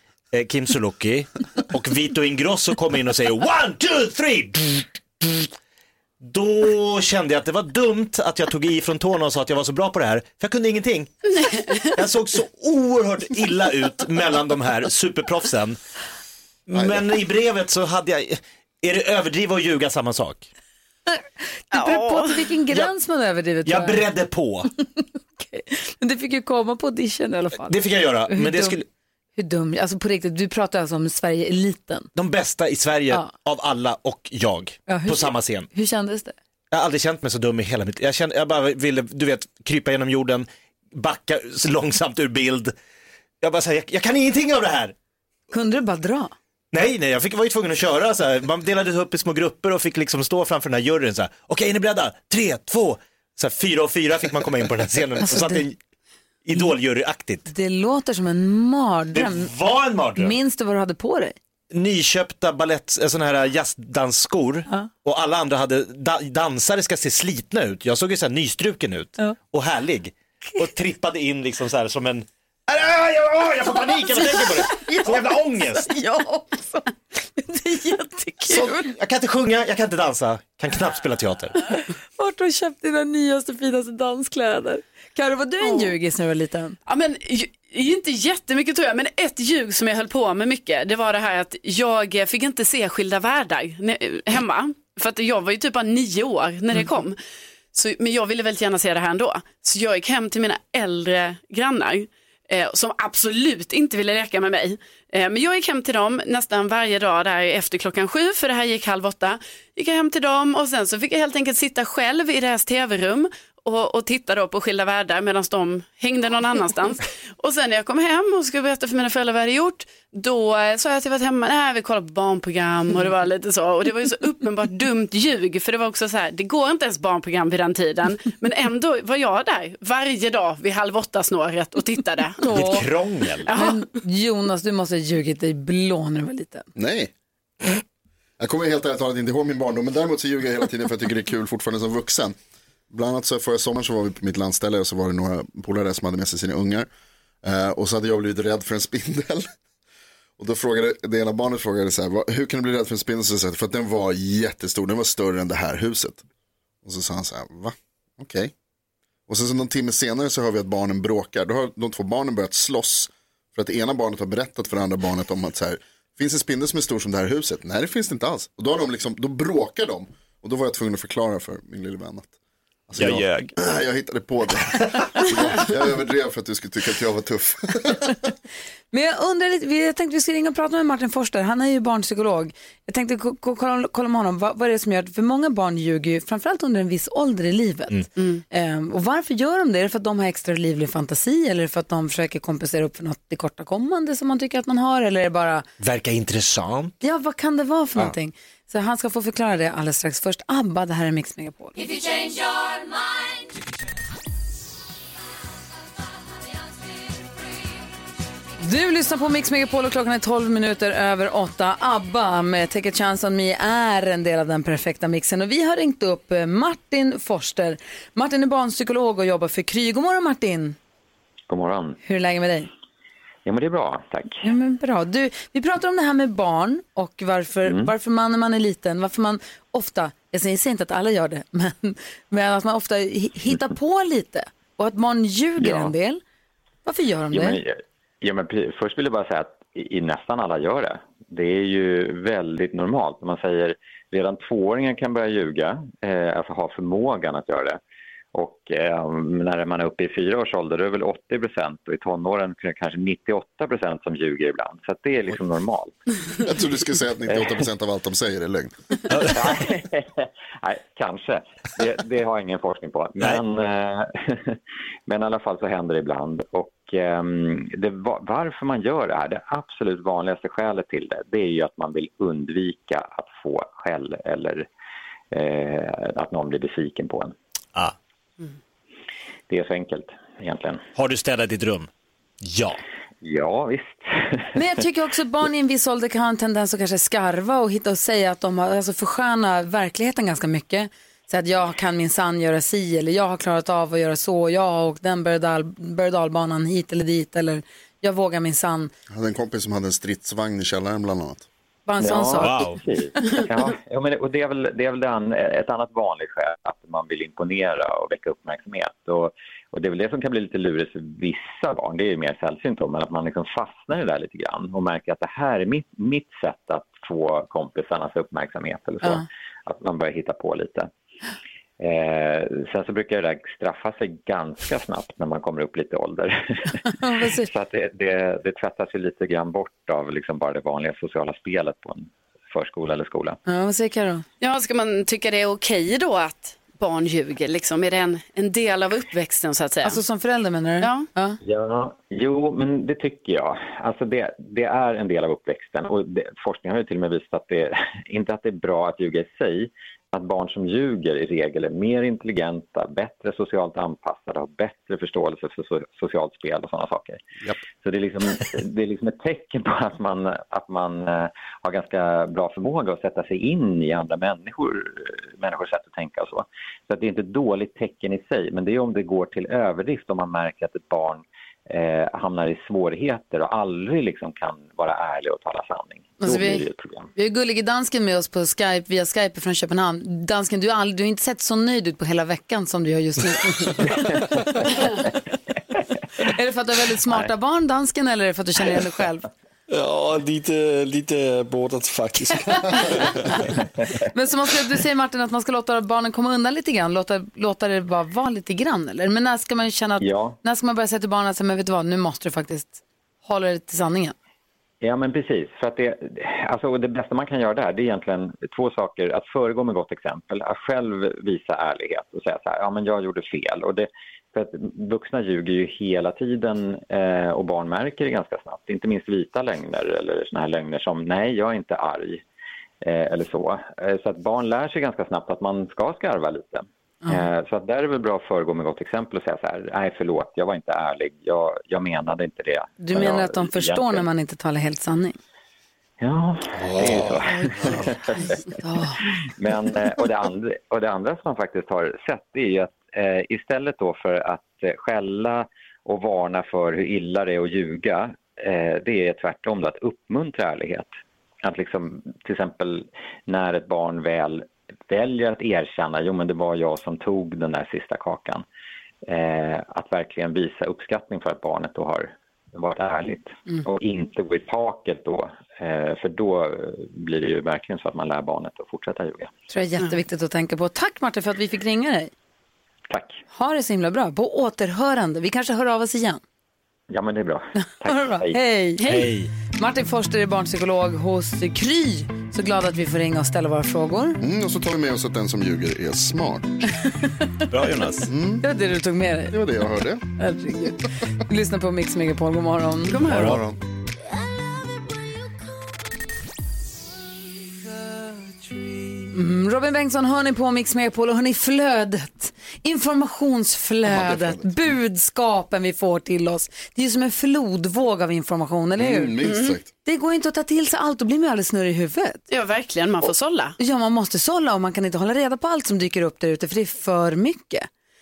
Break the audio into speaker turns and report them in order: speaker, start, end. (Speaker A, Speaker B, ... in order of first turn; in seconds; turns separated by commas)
Speaker A: 0.3-5.5, Speaker A: 6.2-15.8, Speaker B: 11.3-11.8, Speaker A: 16.7-20.5, Speaker C: 16.7-17.0, Speaker D: 21.7-24.0, Speaker B: 21.7-22.5, Speaker A: 23.6-24.7, Speaker D: 25.0-28.7, Speaker A: 27.7-28.8, Speaker D: 29.4-32.1, Speaker A: 32.1-35.7, Speaker D: 34.9-36.3, Speaker A: 36.7-42.7, Speaker A: 43.4-44.9, Speaker D: 45.5-46.3, Speaker A: 46.7-55.8, Speaker D: 55.3-55.6, Speaker A: 56.4-57.5, Speaker D: 57.5-59.5, Speaker A: 59.1-60.3, Speaker D: 60.1-61.4, Speaker A: 61.7-75.9, Speaker D: 74.1-75.1, Speaker D: 75.8-78.9, Speaker A: 78.5-81.5, Speaker D: 82.2-86.8, Speaker B: 86.9-97.2, Speaker B: 97.7-132.7, Speaker D: 132.4-132.9, Speaker A: 132.5-133.5, Speaker B: 133.4-133.8, Speaker D: 133.5-136.7, Speaker C: 136.8-137.1, Speaker C: 138.4-142.3, Speaker C: 142.9-146.9, Speaker C: 147.4-149.5, Speaker C: 150.4-156.2, Speaker C: 156.8-158.5, Speaker C: 159.3-172.3, Speaker C: 172.9-178.2, Speaker A: 173.0-173.5, Speaker D: 178.9-195.6, Speaker B: 188.2-188.4, Speaker A: 195.8-196.9, Speaker D: 197.0-201.9, Speaker D: 208.6-220.8, Speaker E: 221.5-222.0, Speaker D: 222.0-222.7, Speaker E: 223.4-224.4, Speaker D: 224.4-236.2, Speaker E: 227.6-227.9, Speaker E: 235.6-235.9, Speaker D: 236.8-237.6, Speaker E: 237.3-247.8, Speaker E: 248.3-256.0, Speaker C: 256.4-258.7, Speaker A: 259.1-259.5, Speaker E: 259.3-274.6, Speaker E: 275.3-277.3, Speaker E: 279.5-280.8, Speaker A: 280.9-281.9, Speaker A: 282.4-282.8, Speaker E: 283.2-284.6, Speaker D: 284.5-298.9, Speaker C: 299.1-301.5, Speaker D: 301.9-302.6, Speaker E: 302.0-320.9, Speaker A: 302.4-302.8, Speaker E: 321.8-333.4, Speaker D: 326.9-327.5, Speaker D: 333.5-334.2, Speaker B: 334.4-340.0, Speaker D: 339.8-341.4, Speaker B: 340.8-341.1, Speaker E: 341.4-357.2, Speaker E: 357.8-377.1, Speaker D: 376.2-384.1, Speaker D: 386.2-389.3, Speaker F: 389.7-393.5, Speaker D: 392.5-392.9, Speaker D: 394.1-404.1, Speaker E: 400.0-400.4, Speaker E: 404.8-422.2, Speaker E: 422.8-434.0, Speaker D: 432.8-435.2, Speaker E: 436.0-438.4, Speaker F: 436.6-437.8, Speaker D: 437.4-439.0, Speaker E: 439.4-450.9, Speaker E: 451.4-458.4, Speaker E: 459.1-469.3, Speaker D: 469.5-472.1, Speaker E: 472.9-473.2, Speaker D: 473.3-476.2, Speaker E: 476.9-478.4, Speaker D: 477.8-478.9, Speaker B: 478.8-479.1, Speaker A: 478.8-479.3, Speaker D: 479.6-484.2, Speaker C: 484.2-486.6, Speaker A: 487.5-488.1, Speaker C: 488.1-488.4, Speaker D: 488.4-489.4, Speaker C: 489.3-490.0, Speaker D: 490.2-493.0, Speaker B: 492.9-493.4, Speaker C: 493.0-493.6, Speaker A: 493.1-493.4, Speaker D: 499.1-509.2, Speaker C: 503.9-504.7, Speaker C: 508.8-509.7, Speaker B: 509.2-509.6, Speaker D: 509.8-512.2, Speaker B: 512.3-513.5, Speaker D: 513.6-517.7